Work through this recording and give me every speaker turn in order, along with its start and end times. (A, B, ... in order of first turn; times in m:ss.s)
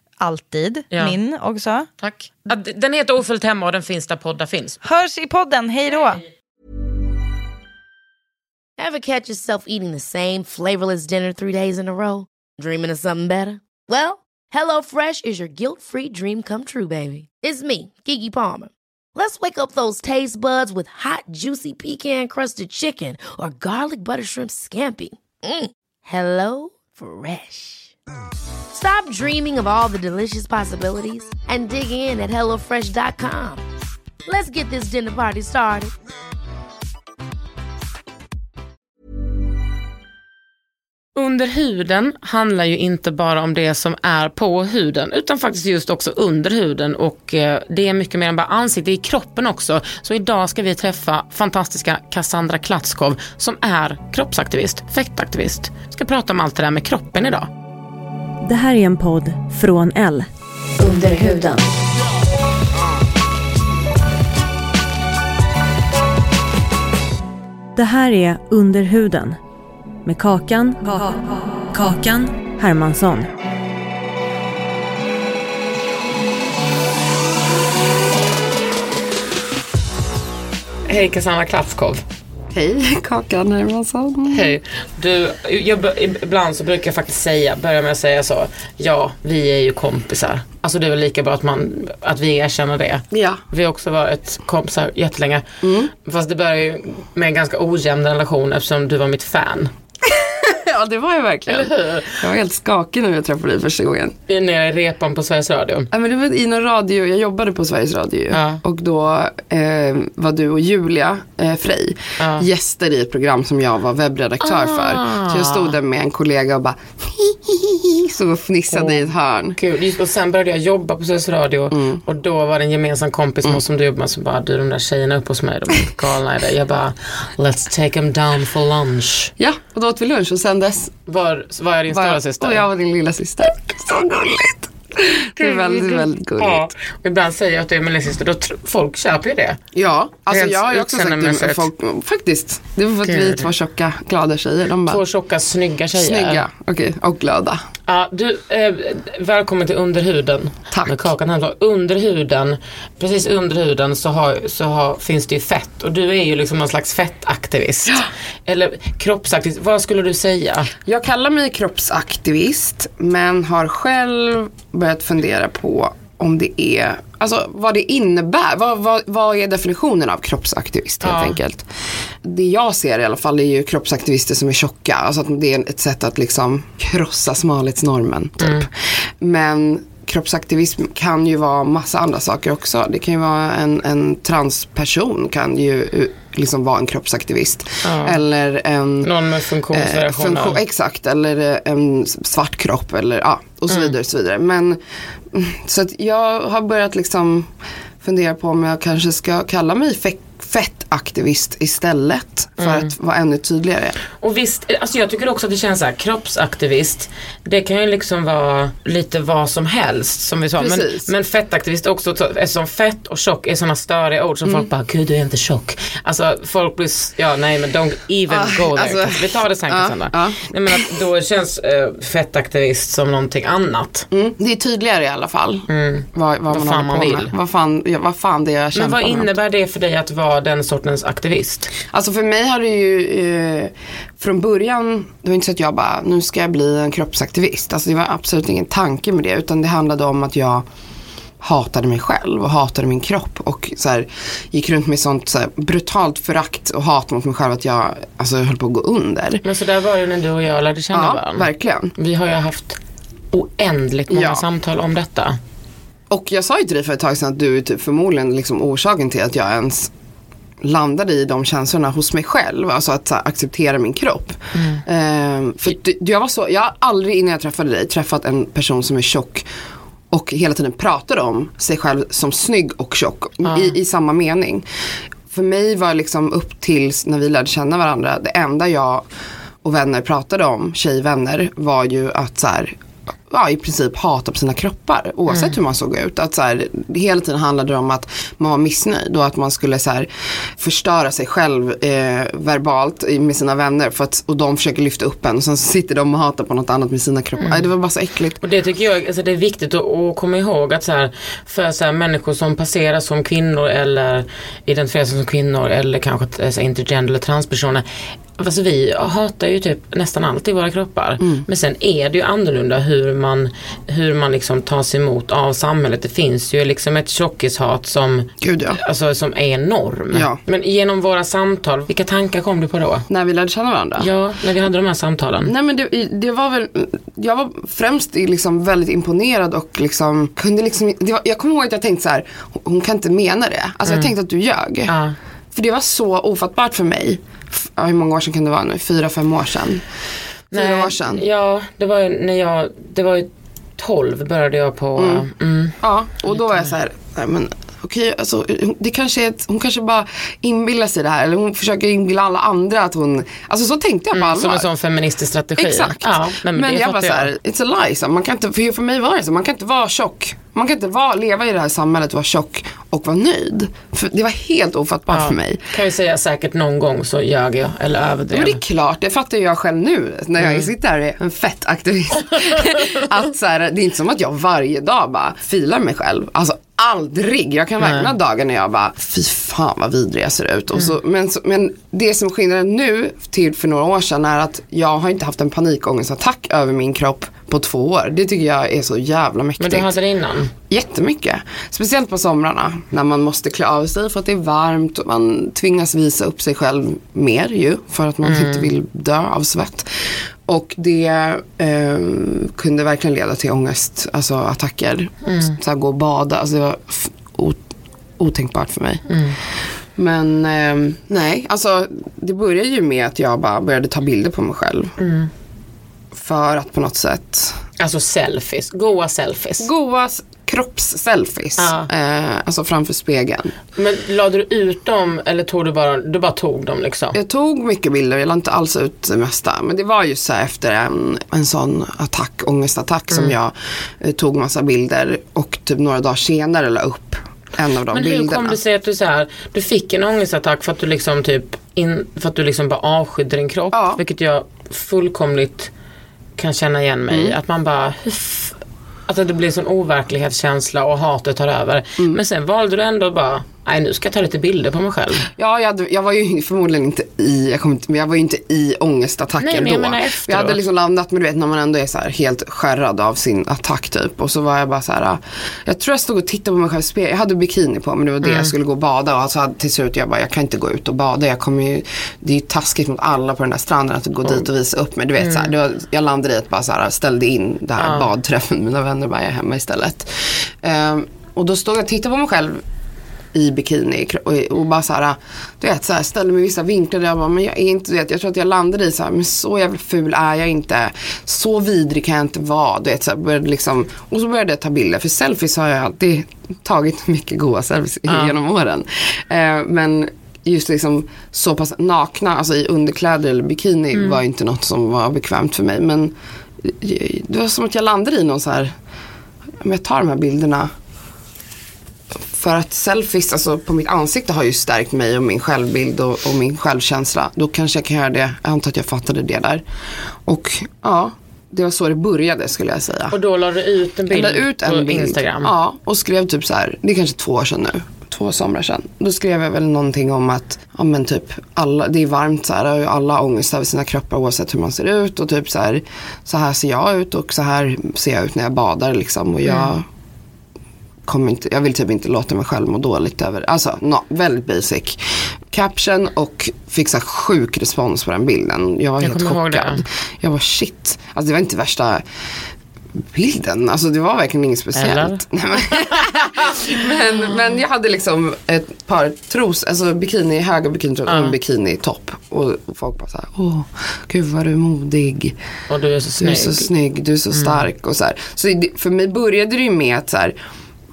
0:00.2-0:01.9 A
0:00.9-0:01.2 B
0:02.0-0:04.8 B
0:04.8-0:06.2 A
0:08.8-0:27.9 C
0:28.7-0:33.6 C
0:34.2-0:35.9 C
0:41.1-0:57.5 B
0:58.4-1:00.3 D
1:00.8-1:01.6 D
1:07.8-1:09.4 D
1:10.0-1:13.3 D
1:20.9-1:22.0 B
1:22.5-1:24.6 E
1:24.3-1:35.4 B
1:33.1-1:33.4 E
1:35.6-1:35.9 E
1:36.0-1:39.7 B
1:40.0-1:44.1 E
1:41.5-1:42.2 B
1:44.3-1:45.9 B
1:45.9-1:59.6 E
1:48.3-1:48.6 B
1:52.2-1:52.5 B
1:54.4-1:55.7 B
1:58.7-2:09.3 B
2:01.7-2:02.0 E
2:09.4-2:11.0 E
2:11.1-2:12.6 B
2:11.9-2:16.7 E
2:15.4-2:19.6 B
2:19.7-2:25.0 E
2:20.3-2:21.7 B
2:23.0-2:23.5 B
2:24.9-2:26.4 B
2:25.9-2:27.6 E
2:27.9-2:40.7 B
2:30.7-2:31.1 E
2:40.8-2:51.7 E
2:51.0-2:51.4 B
2:52.2-3:09.1 E
2:58.4-2:58.6 B
3:07.8-3:08.2 B
3:09.0-3:10.6 B
3:09.7-3:14.8 E
3:15.3-3:17.5 E
3:18.0-3:24.0 E
3:22.6-3:22.9 B
3:24.2-3:44.1 B
3:30.6-3:31.1 E
3:38.3-3:40.8 E
3:44.1-3:49.3 E
3:45.7-3:47.3 B
3:48.7-3:51.7 B
3:51.9-4:00.6 E
4:01.4-4:09.4 E
4:09.4-4:12.8 B
4:10.9-4:11.9 E
4:13.3-4:15.4 B
4:14.1-4:14.4 E
4:16.1-4:19.9 E
4:20.6-4:29.5 E
4:24.5-4:24.8 B
4:30.1-4:34.6 E
4:33.4-4:33.7 B
4:35.3-4:39.0 E
4:39.6-4:42.7 E
4:43.3-4:58.4 E
4:45.3-4:45.6 B
4:57.4-4:57.6 B
4:58.4-5:07.8 B
5:08.4-5:23.0 B
5:11.2-5:11.4 E
5:18.4-5:18.8 E
5:20.1-5:20.4 E
5:23.1-5:24.1 E
5:24.0-5:25.5 B
5:25.4-5:34.9 E
5:34.9-5:35.2 B
5:35.5-5:39.8 E
5:40.5-5:41.2 E
5:40.5-5:45.7 B
5:45.0-5:45.3 E
5:45.8-5:54.7 E
5:46.3-5:46.7 B
5:54.1-5:57.3 B
5:55.6-6:05.6 E
6:05.1-6:08.6 B
6:08.3-6:29.9 E
6:10.4-6:10.7 B
6:12.3-6:13.0 B
6:17.8-6:18.1 B
6:29.6-6:30.5 B
6:30.7-6:47.6 E
6:38.2-6:38.7 B
6:45.2-6:45.5 B
6:48.2-6:49.1 E
6:49.1-6:49.4 B
6:50.0-6:55.0 E
6:55.0-6:55.3 B
6:56.1-6:57.6 E
6:57.8-6:59.7 B
6:59.6-7:03.5 E
7:01.6-7:01.9 B
7:03.8-7:07.2 B
7:07.1-7:18.6 E
7:17.9-7:25.7 B
7:23.7-7:24.0 E
7:26.4-7:28.6 B
7:27.1-7:27.4 E
7:29.1-7:35.2 B
7:35.4-8:02.6 E
7:39.4-7:40.6 B
7:48.2-7:48.5 B
7:55.2-7:55.5 B
7:57.8-7:58.1 B
8:03.3-8:28.7 E
8:18.1-8:18.3 B
8:23.9-8:24.2 B
8:29.6-8:30.7 E
8:32.2-8:39.6 E
8:40.2-8:43.2 E
8:43.1-8:45.5 B
8:44.1-8:59.8 E
8:59.4-8:59.7 B
9:01.0-9:12.0 E
9:09.0-9:09.8 B
9:13.1-9:25.4 E
9:14.7-9:16.5 B
9:21.0-9:21.3 B
9:25.7-9:26.7 B
9:26.2-9:30.4 E
9:27.3-9:27.6 B